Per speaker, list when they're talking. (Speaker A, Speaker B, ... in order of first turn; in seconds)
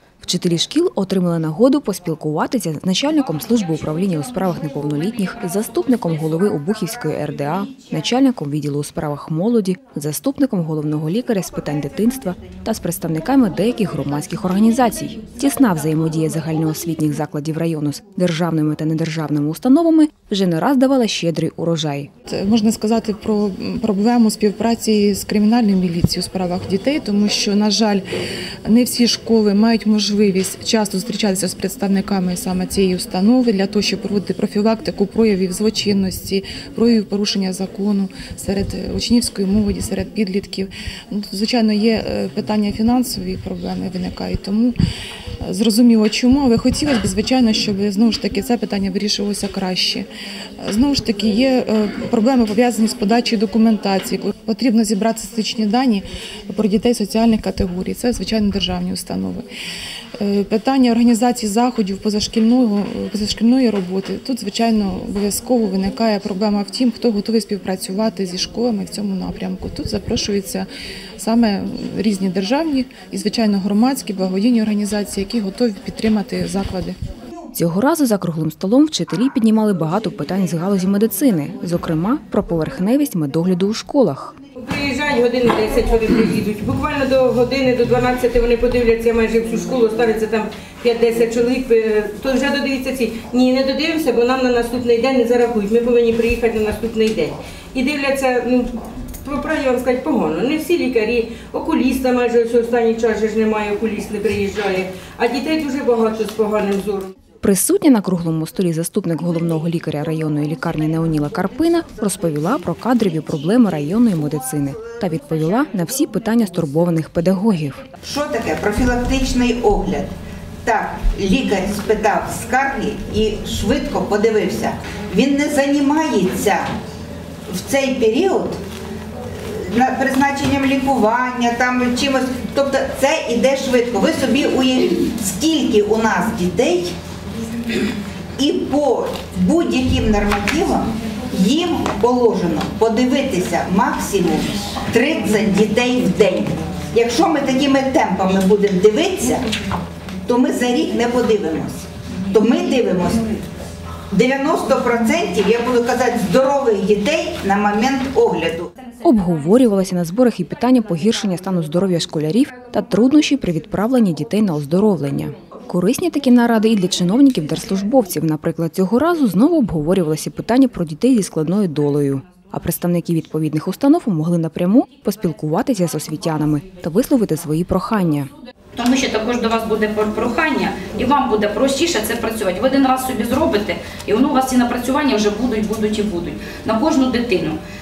Speaker A: 0.2-22.1, 77.5-84.3, 107.4-117.8, 159.0-178.3
Speaker B: 22.3-28.0, 28.7-44.8, 45.4-50.1, 50.6-59.5, 60.2-70.7, 71.2-76.9
Speaker C: 84.6-98.7, 99.2-107.1
Speaker D: 118.0-120.1, 120.6-126.7, 127.5-128.6, 129.3-136.9, 138.4-149.5, 150.3-153.3, 154.1-158.7
Speaker E: 178.8-187.6